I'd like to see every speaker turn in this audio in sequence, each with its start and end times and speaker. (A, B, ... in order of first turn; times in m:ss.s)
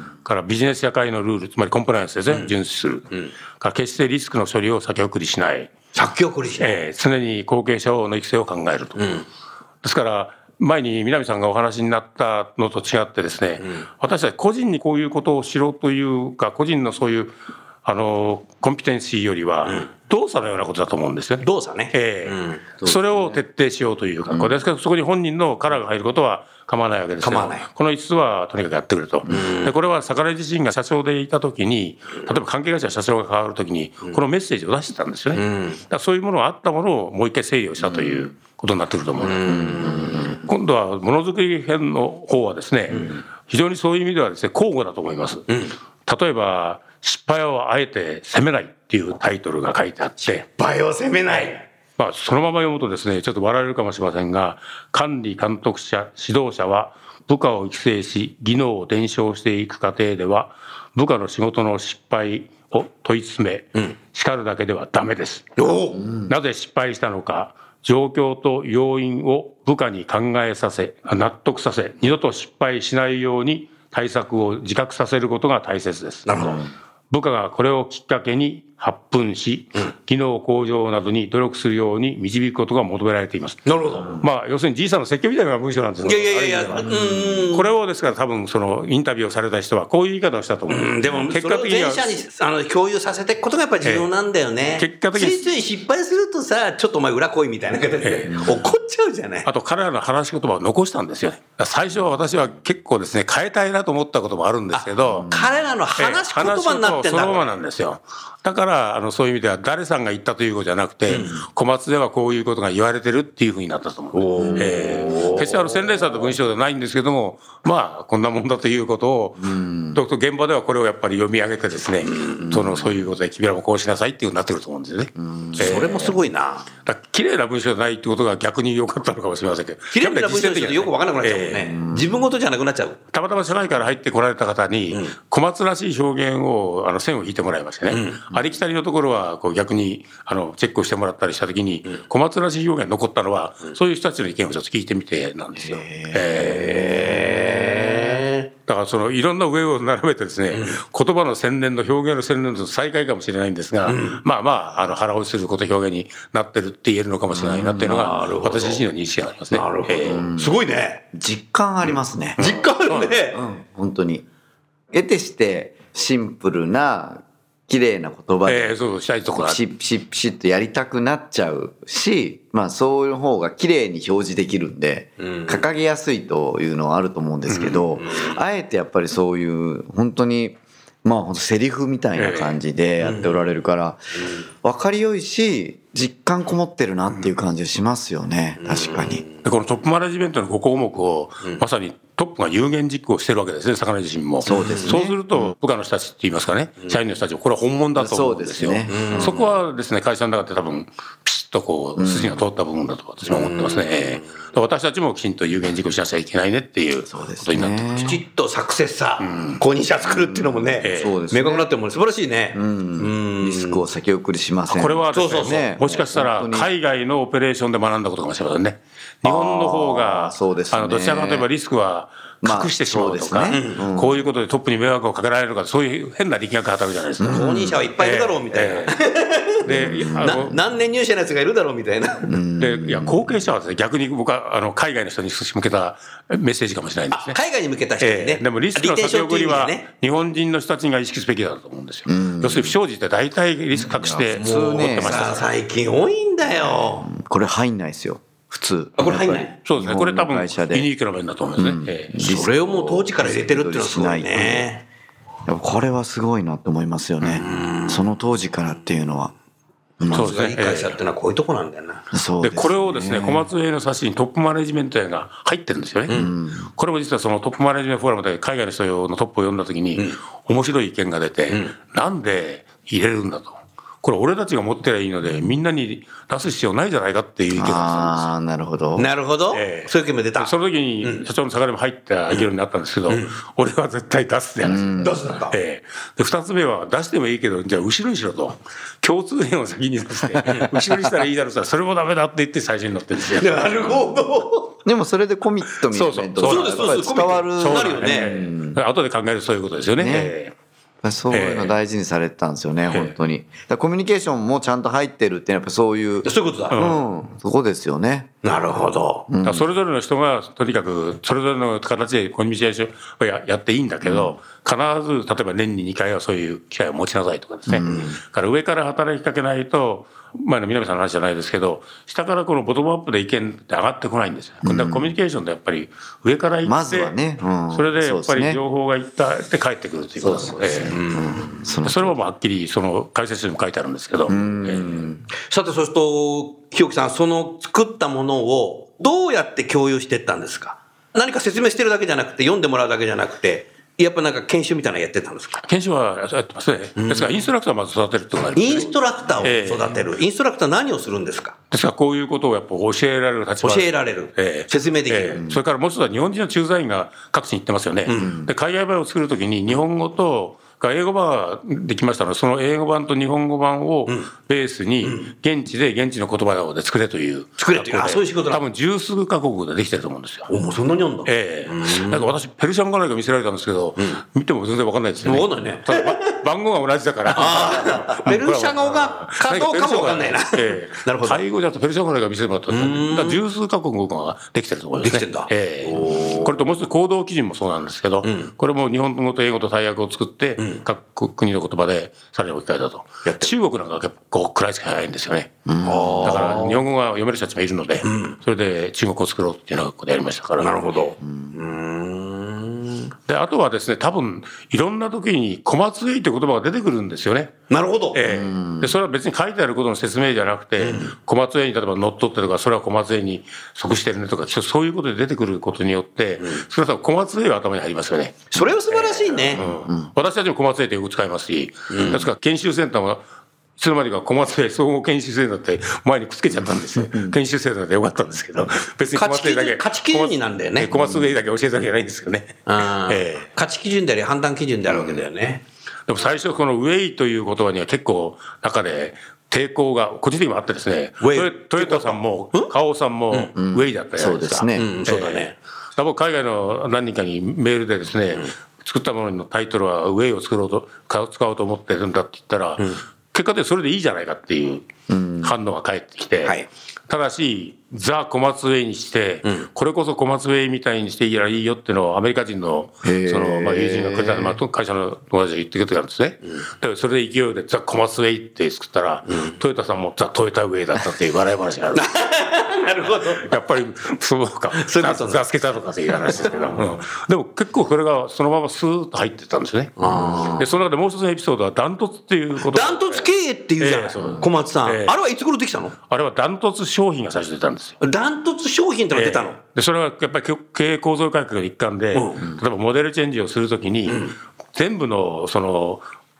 0:00.2-0:05.7 A
0:05.9-0:06.8 B
0:06.6-0:09.2 A
0:09.0-0:09.2 B
0:09.8-0:17.3 A
0:17.8-0:50.4 A
0:21.4-0:22.6 B
0:27.2-0:27.6 B
0:29.3-0:29.7 B
0:35.3-0:35.8 B
0:39.2-0:40.4 B
0:39.6-0:40.3 C
0:45.5-0:45.8 B
0:50.2-0:51.6 B
0:52.0-1:05.6 A
1:05.6-1:06.1 B
1:06.2-1:16.6 A
1:16.2-1:16.6 B
1:17.1-1:32.2 A
1:23.6-1:24.2 B
1:26.0-1:27.7 B
1:30.7-1:39.5 B
1:33.8-1:34.1 A
1:34.8-1:35.5 A
1:38.0-1:38.4 A
1:38.3-1:38.6 C
1:39.4-1:45.3 A
1:44.7-1:47.6 B
1:45.1-1:45.5 C
1:46.0-2:06.2 A
1:51.1-1:51.4 B
1:54.1-1:55.8 B
1:54.4-1:55.1 C
1:59.4-2:00.0 C
2:02.0-2:02.5 B
2:02.4-2:03.1 C
2:05.2-2:06.2 C
2:05.6-2:06.7 B
2:06.8-2:11.8 A
2:09.9-2:13.0 B
2:11.6-2:12.3 C
2:13.1-2:27.1 A
2:17.9-2:18.3 B
2:25.6-2:28.2 C
2:26.4-2:28.5 B
2:28.6-2:40.2 A
2:30.5-2:30.8 B
2:33.9-2:34.2 B
2:37.3-2:38.1 C
2:37.8-2:38.8 B
2:39.5-2:41.0 B
2:40.0-2:40.6 C
2:41.1-2:42.4 C
2:42.4-2:43.2 A
2:42.4-2:43.4 B
2:43.3-2:44.2 C
2:44.9-2:48.8 C
2:48.5-2:49.6 A
2:49.3-3:09.2 C
2:55.2-2:55.6 B
2:57.5-2:57.9 A
2:58.0-2:58.4 B
3:02.2-3:02.6 A
3:03.0-3:03.4 B
3:04.2-3:04.4 B
3:08.6-3:09.3 B
3:09.4-3:28.2 A
3:14.4-3:15.5 C
3:14.5-3:15.0 B
3:17.9-3:19.5 C
3:18.9-3:19.5 B
3:22.0-3:22.4 C
3:27.1-3:28.2 C
3:28.0-3:33.8 B
3:29.2-3:29.6 A
3:30.0-3:31.7 C
3:30.8-3:31.2 A
3:32.5-3:36.7 C
3:34.7-3:48.9 A
3:35.1-3:35.6 B
3:39.2-3:41.5 C
3:42.4-3:44.2 C
3:43.5-3:43.8 B
3:47.2-3:47.8 C
3:47.3-3:52.4 B
3:49.6-3:50.6 A
3:49.6-3:50.6 C
3:52.3-3:53.4 C
3:52.6-3:57.4 A
3:57.1-3:59.8 B
3:58.0-4:05.5 A
4:02.1-4:02.8 C
4:03.7-4:05.4 C
4:04.4-4:07.1 B
4:06.4-4:10.9 C
4:09.0-4:09.6 B
4:09.6-4:12.2 A
4:11.6-4:14.7 C
4:12.2-4:14.8 B
4:15.5-4:19.3 C
4:17.2-4:18.1 B
4:20.0-4:20.3 C
4:20.1-4:22.0 B
4:20.1-4:21.0 A
4:22.1-4:23.5 C
4:22.4-4:26.2 A
4:26.1-4:26.7 C
4:26.8-4:38.3 A
4:37.5-4:39.1 C
4:39.0-4:41.3 B
4:39.5-4:45.0 A
4:43.1-4:43.3 B
4:44.6-4:45.2 C
4:44.9-4:45.5 B
4:45.5-4:54.0 A
4:53.3-4:54.7 B
4:54.8-4:58.8 C
4:55.9-5:00.5 A
4:56.4-4:58.4 B
5:00.0-5:00.4 C
5:01.0-5:08.3 C
5:01.3-5:01.8 A
5:06.2-5:06.8 B
5:06.7-5:07.0 A
5:08.4-5:09.3 B
5:09.3-5:09.7 C
5:09.4-5:27.2 A
5:14.0-5:14.4 C
5:17.7-5:18.2 C
5:24.6-5:25.1 C
5:26.6-5:28.6 C
5:27.7-5:31.0 A
5:30.3-5:32.2 C
5:30.8-5:31.6 B
5:31.8-5:35.0 A
5:34.3-5:35.2 C
5:35.4-5:45.6 B
5:45.6-5:50.0 A
5:47.0-5:47.5 B
5:48.5-5:51.6 B
5:51.7-6:10.5 A
5:53.6-5:55.4 B
5:55.4-5:55.6 C
5:58.1-5:58.3 B
5:58.2-5:58.5 C
6:07.6-6:08.6 B
6:10.5-6:12.3 B
6:11.2-6:35.5 A
6:15.2-6:16.2 B
6:17.3-6:21.4 B
6:22.7-6:23.4 B
6:25.0-6:26.5 B
6:26.0-6:26.5 C
6:28.2-6:28.5 B
6:33.2-6:33.5 B
6:35.6-6:36.6 C
6:35.8-6:36.8 B
6:36.2-6:40.8 A
6:38.0-6:38.4 B
6:40.6-6:43.1 B
6:41.2-6:41.6 C
6:43.3-6:47.5 A
6:47.7-6:48.4 B
6:48.1-7:03.2 A
6:48.2-6:49.0 C
6:50.8-6:51.1 B
6:58.5-6:59.6 B
6:59.6-7:00.1 C
7:01.9-7:02.2 B
7:03.8-7:13.5 A
7:06.6-7:07.4 C
7:09.1-7:10.9 B
7:10.9-7:11.3 C
7:12.7-7:15.6 B
7:16.1-7:34.9 A
7:21.2-7:22.7 B
7:23.6-7:24.9 C
7:24.8-7:25.5 B
7:35.1-7:35.6 C
7:35.4-7:52.1 A
7:43.0-7:44.6 C
7:49.3-7:49.6 B
7:51.9-7:53.5 B
7:53.3-8:03.3 A
7:54.8-7:55.4 B
7:56.2-7:56.8 B
8:00.0-8:00.7 B
8:00.1-8:00.5 C
8:02.6-8:06.0 B
8:03.8-8:05.1 A
8:04.2-8:04.5 C
8:06.1-8:08.0 A
8:08.0-8:09.6 B
8:09.1-8:16.0 A
8:12.1-8:12.4 B
8:14.1-8:14.4 B